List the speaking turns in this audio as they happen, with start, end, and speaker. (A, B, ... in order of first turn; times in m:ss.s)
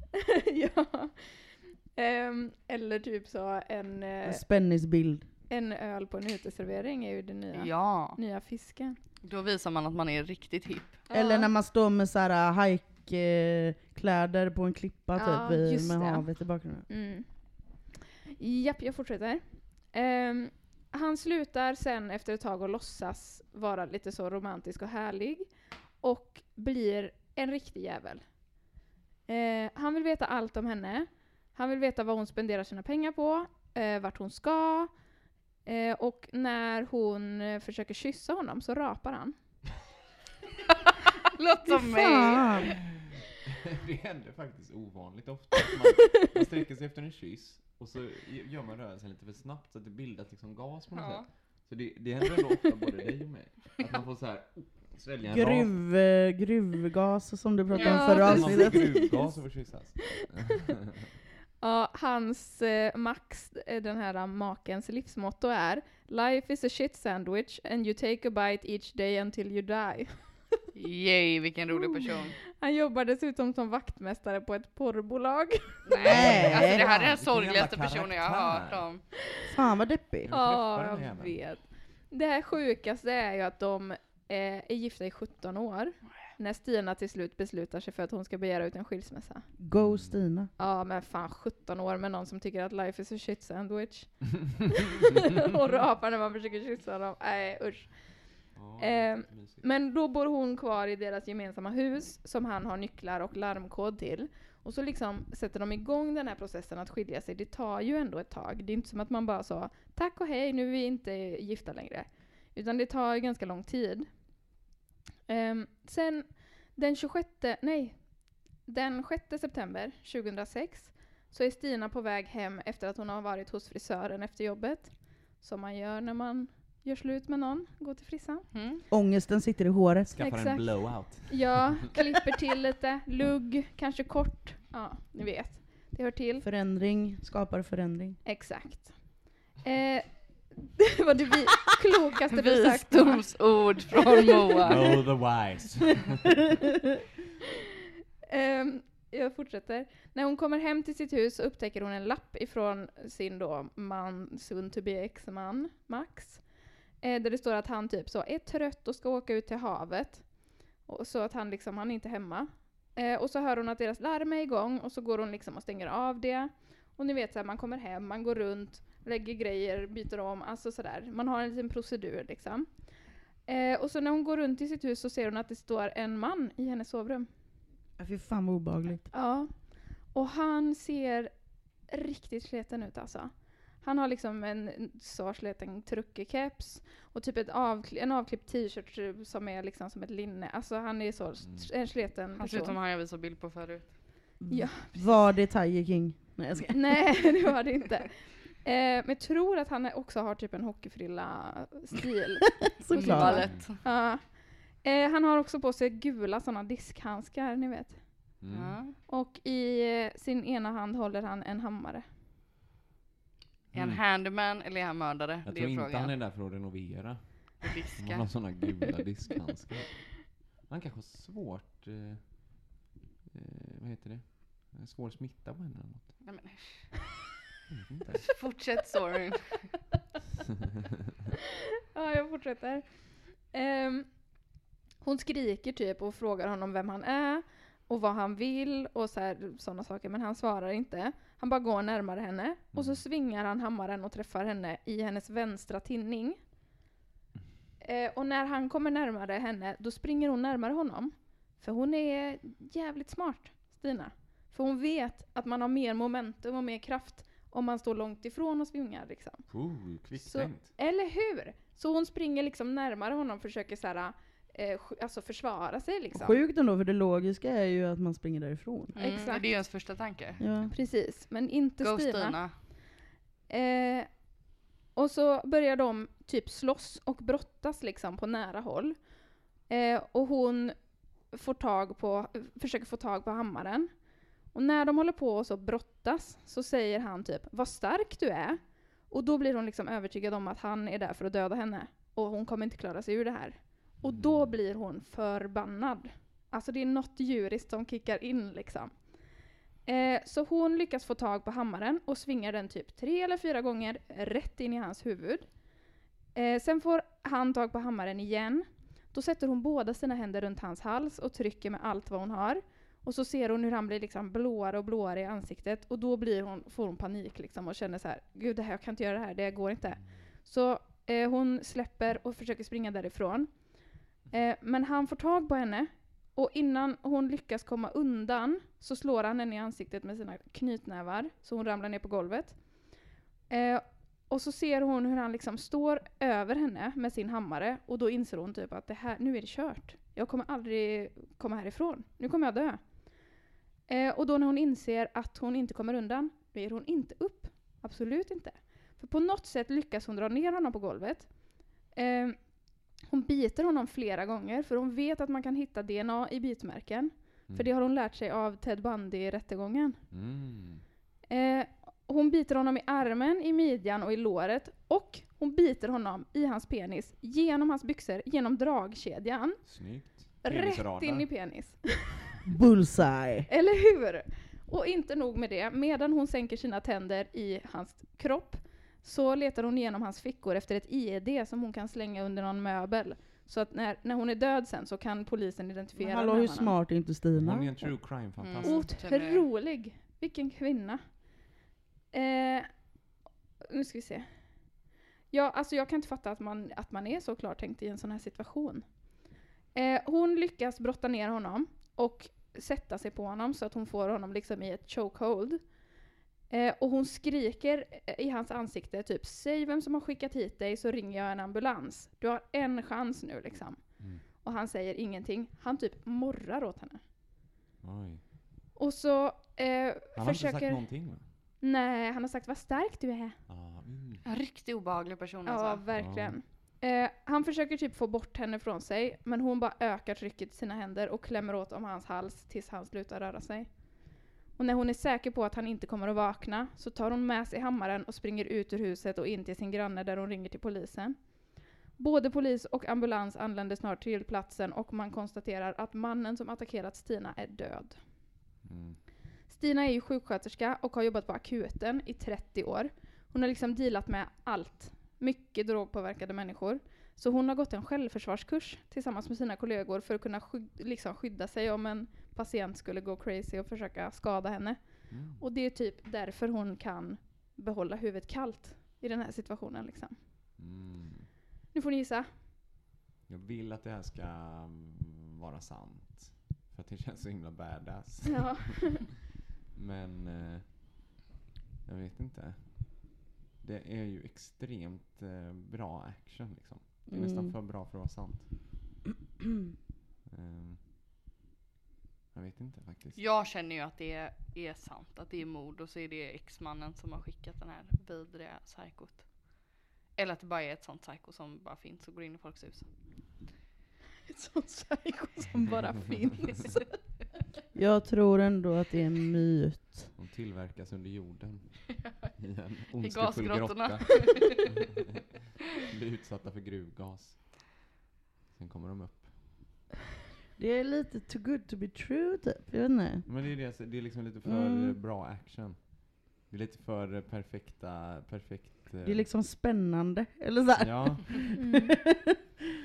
0:00.2-0:04.4 A
0:04.2-0:05.2 B
0:05.5-0:09.0 A
0:07.5-0:08.2 C
0:09.2-0:11.0 C
0:11.1-0:11.5 A
0:11.1-0:16.8 B
0:15.2-0:16.3 A
0:16.9-0:17.8 A
0:18.4-0:28.4 A
0:29.3-0:34.9 A
0:35.6-0:39.4 A
0:41.2-0:42.7 C
0:41.7-0:42.7 B
0:43.6-0:55.7 D
0:50.9-0:51.3 C
0:55.2-0:59.1 B
0:57.8-0:59.4 A
0:58.2-1:01.0 D
1:01.6-1:10.4 A
1:10.7-1:12.4 C
1:12.5-1:15.8 A
1:15.9-1:19.0 C
1:16.0-1:19.0 D
1:16.1-1:16.8 B
1:19.4-1:20.3 B
1:20.2-1:21.4 D
1:20.3-1:29.5 A
1:29.6-1:30.5 B
1:29.7-1:30.2 D
1:30.6-1:54.1 A
1:38.5-1:39.6 D
1:55.3-2:08.5 A
2:08.5-2:08.8 C
2:08.9-2:10.1 B
2:10.1-2:11.8 D
2:10.2-2:16.4 A
2:16.4-2:18.2 B
2:18.2-2:23.5 A
2:22.3-2:24.8 C
2:24.6-2:26.4 D
2:28.3-2:52.9 A
2:53.4-2:57.3 A
2:58.0-2:59.0 B
2:59.1-3:12.8 A
3:11.4-3:11.7 D
3:12.3-3:14.0 C
3:14.4-3:17.4 B
3:14.5-3:15.3 A
3:16.7-3:28.2 A
3:22.8-3:23.5 B
3:22.9-3:23.8 C
3:23.2-3:23.7 D
3:28.4-3:28.8 D
3:28.5-3:29.0 C
3:29.1-3:32.0 A
3:33.7-3:34.0 D
3:33.7-3:36.1 C
3:35.4-3:42.8 D
3:37.6-3:38.8 C
3:43.3-3:46.2 D
3:46.2-3:47.0 C
3:47.7-3:48.4 D
3:48.3-3:49.7 C
3:51.9-3:54.4 A
3:55.0-4:06.4 A
4:02.7-4:03.0 D
4:07.8-4:19.5 A
4:19.5-4:20.7 D
4:20.1-4:26.4 A
4:26.1-4:29.0 B
4:28.9-4:30.4 C
4:29.0-4:29.5 A
4:30.4-4:30.7 B
4:30.7-4:32.7 A
4:31.8-4:32.6 C
4:33.5-4:34.3 A
4:34.9-4:40.8 A
4:41.3-4:44.0 A
4:44.5-4:59.3 A
4:54.0-4:54.6 D
4:59.8-5:05.7 A
5:06.3-5:43.2 A
5:43.9-6:00.0 A
6:00.1-6:00.8 D
6:01.3-6:12.1 A
6:09.6-6:11.4 D
6:12.5-6:13.5 B
6:13.5-6:26.7 A
6:26.0-6:27.9 B
6:27.3-6:28.9 D
6:28.4-6:29.4 C
6:28.6-6:31.3 A
6:32.1-6:32.9 A
6:33.6-6:39.0 A
6:39.7-6:45.9 A
6:46.5-6:57.0 A
6:54.0-6:54.2 D
6:57.8-6:58.2 D
6:58.8-7:03.4 A
7:00.1-7:01.3 D
7:03.5-7:04.2 D
7:04.2-7:05.8 C
7:05.4-7:28.0 A
7:05.9-7:06.4 D
7:28.6-7:29.0 D
7:29.5-7:50.2 A
7:45.1-7:45.4 D
7:50.6-7:51.3 D
7:51.7-7:52.3 A
7:53.3-7:58.6 D
7:58.3-7:59.0 A
7:59.7-8:01.0 D
8:01.8-8:08.8 D
8:07.1-8:07.5 B
8:10.3-8:10.8 D
8:12.3-8:13.2 D
8:13.2-8:22.9 C
8:24.3-8:27.0 A
8:27.7-8:30.1 B
8:30.1-8:35.2 D
8:33.0-8:34.6 C
8:35.9-8:37.7 D
8:38.5-8:39.7 D
8:40.6-8:43.2 B
8:43.2-8:49.3 D
8:44.4-8:45.0 B
8:49.0-8:52.2 B
8:50.8-8:51.4 D
8:51.6-8:51.9 A